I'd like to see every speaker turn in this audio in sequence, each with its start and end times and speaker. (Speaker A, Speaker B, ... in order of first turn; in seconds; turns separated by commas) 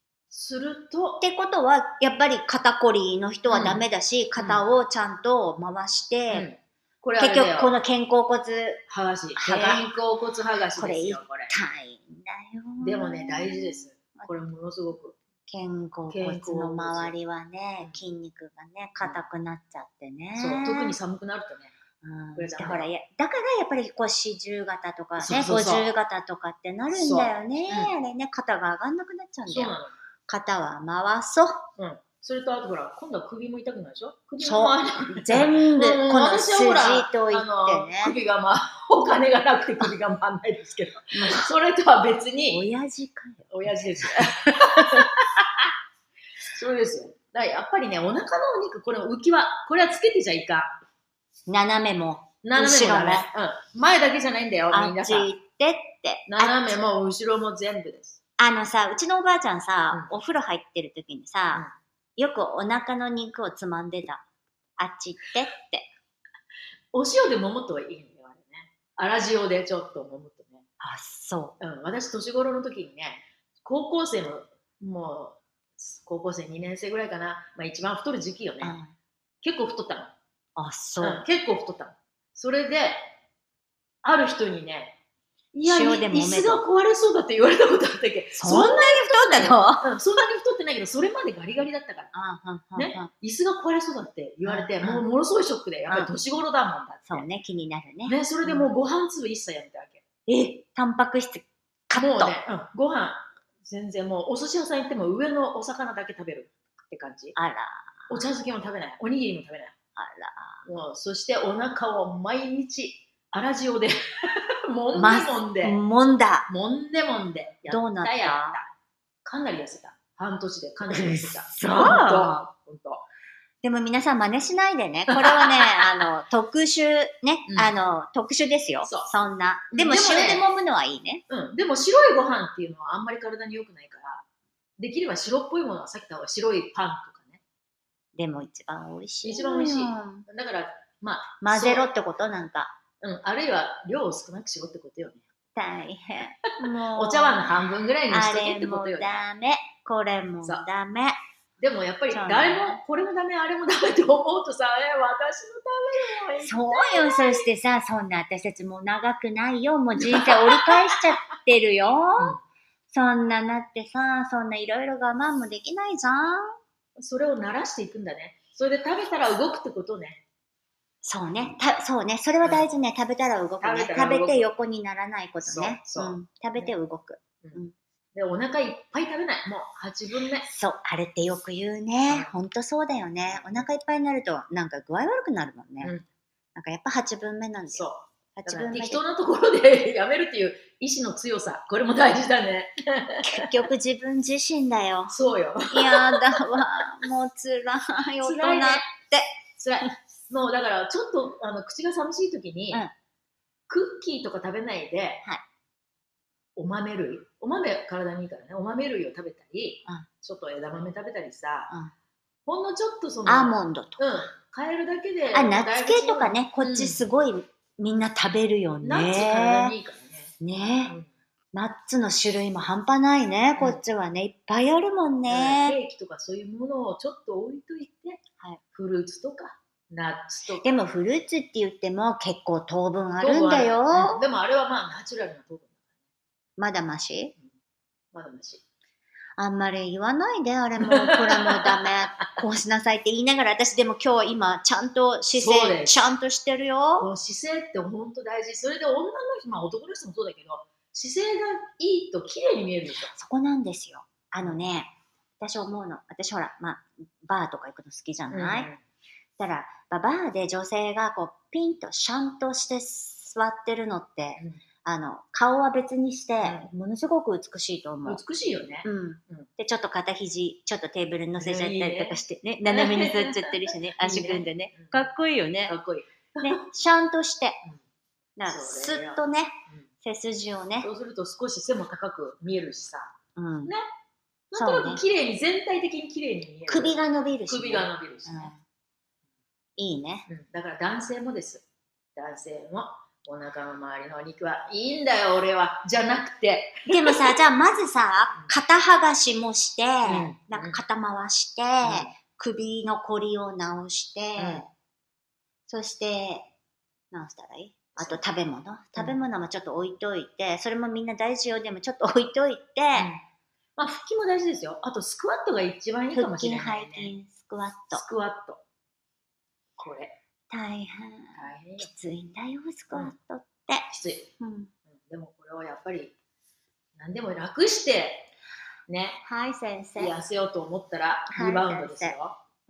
Speaker A: 0.3-1.2, Speaker B: 1.2-6.5, Speaker A: 3.5-3.8, Speaker A: 4.4-4.7, Speaker A: 6.3-7.8, Speaker B: 7.2-8.8, Speaker A: 8.9-11.5, Speaker B: 9.3-9.9, Speaker B: 10.7-14.3, Speaker A: 12.8-15.2, Speaker B: 15.5-20.9, Speaker A: 16.1-17.1, Speaker A: 20.3-21.7, Speaker B: 22.0-29.8, Speaker A: 22.3-22.9, Speaker A: 25.2-25.9, Speaker A: 26.9-27.9, Speaker A: 29.5-29.9, Speaker B: 30.3-31.7, Speaker A: 31.8-42.6, Speaker B: 34.4-38.1, Speaker B: 41.1-41.5, Speaker B: 42.5-45.0, Speaker A: 43.5-45.5, Speaker A: 46.4-50.8, Speaker B: 51.5-53.3, Speaker A: 52.4-55.3, Speaker B: 54.7-56.8, Speaker A: 56.3-58.2, Speaker B: 58.4-61.6, Speaker B: 62.2-64.2, Speaker B: 64.8-65.9, Speaker A: 66.9-70.6, Speaker B: 70.8-71.6, Speaker A: 71.6-78.8, Speaker B: 78.6-78.9, Speaker A: 79.4-80.1, Speaker B: 80.5-81.2, Speaker A: 81.0-83.1, Speaker A: 84.0-85.0, Speaker A: 85.5-92.1, Speaker B: 85.6-86.6, Speaker B: 88.3-89.9, Speaker B: 92.1-93.1, Speaker A: 92.8-97.2, Speaker B: 94.4-95.0, Speaker B: 95.9-96.1, Speaker B: 97.1-98.7, Speaker A: 98.0-100.0, Speaker B: 100.3-102.3, Speaker A: 102.0-107.3, Speaker B: 107.3-108.2, Speaker A: 108.1-109.7, Speaker B: 110.0-110.6, Speaker A: 110.6-113.9, Speaker A: 114.7-115.8, Speaker B: 114.9-116.5, Speaker A: 116.5-118.7, Speaker B: 117.7-118.6, Speaker A: 119.2-123.0, Speaker B: 120.9-122.5, Speaker B: 123.6-131.2, Speaker A: 125.1-126.1, Speaker A: 127.5-127.7, Speaker A: 128.8-129.1, Speaker A: 129.7-130.4, Speaker A: 131.3-134.2, Speaker A: 134.8-137.4, Speaker B: 138.2-140.2, Speaker A: 139.2-141.9, Speaker B: 141.4-142.7, Speaker A: 143.0-145.2, Speaker B: 145.6-151.2, Speaker A: 146.9-149.1, Speaker A: 151.6-157.5, Speaker B: 152.1-152.8, Speaker B: 156.4-162.4, Speaker A: 160.0-161.0, Speaker B: 162.9-166.6, Speaker A: 167.0-170.2, Speaker B: 171.0-177.7, Speaker A: 172.4-172.7, Speaker A: 173.6-174.5, Speaker A: 175.4-176.7, Speaker A: 178.1-180.5, Speaker B: 180.4-185.9, Speaker A: 182.1-182.3, Speaker A: 183.2-183.7, Speaker B: 186.5-189.0, Speaker A: 187.7-193.5, Speaker B: 193.2-195.1, Speaker A: 195.1-196.4, Speaker B: 195.7-199.3, Speaker A: 198.2-198.9, Speaker A: 199.6-202.8, Speaker A: 203.7-205.2, Speaker A: 206.6-211.7, Speaker A: 212.4-217.0, Speaker B: 213.2-214.1, Speaker B: 215.3-219.7, Speaker A: 218.8-220.3, Speaker B: 220.4-221.0, Speaker B: 221.5-225.8, Speaker A: 225.3-228.2, Speaker A: 228.7-230.7, Speaker B: 230.6-234.2, Speaker A: 233.2-235.9, Speaker B: 236.6-237.3, Speaker A: 238.1-238.6, Speaker B: 239.4-247.1, Speaker A: 240.8-242.2, Speaker A: 245.3-246.0, Speaker A: 247.0-253.1, Speaker B: 253.1-258.7, Speaker A: 258.3-258.8, Speaker B: 259.4-268.2, Speaker A: 264.4-264.6, Speaker A: 266.4-266.7, Speaker A: 268.1-269.5, Speaker B: 268.8-275.8, Speaker A: 271.4-275.1, Speaker A: 275.6-276.6, Speaker B: 276.4-277.6, Speaker B: 278.4-280.9, Speaker A: 278.5-279.9, Speaker A: 280.8-283.1, Speaker B: 283.4-283.7, Speaker A: 284.5-288.5, Speaker B: 284.5-285.0, Speaker B: 286.7-288.6, Speaker B: 289.8-290.3, Speaker A: 290.3-297.3, Speaker B: 296.9-304.7, Speaker A: 300.1-300.8, Speaker A: 301.8-302.1, Speaker A: 304.4-304.6, Speaker B: 305.7-306.5, Speaker B: 307.1-313.1, Speaker A: 308.0-308.2, Speaker A: 312.9-313.2, Speaker A: 313.8-317.1, Speaker B: 316.1-318.0, Speaker A: 317.9-318.6, Speaker A: 319.8-320.1, Speaker B: 320.5-323.9, Speaker A: 321.3-321.9, Speaker A: 323.9-324.3, Speaker B: 324.4-324.7, Speaker A: 325.0-326.1, Speaker A: 326.9-328.3, Speaker A: 328.9-329.2, Speaker B: 329.2-330.1, Speaker A: 330.0-332.4, Speaker B: 331.3-332.1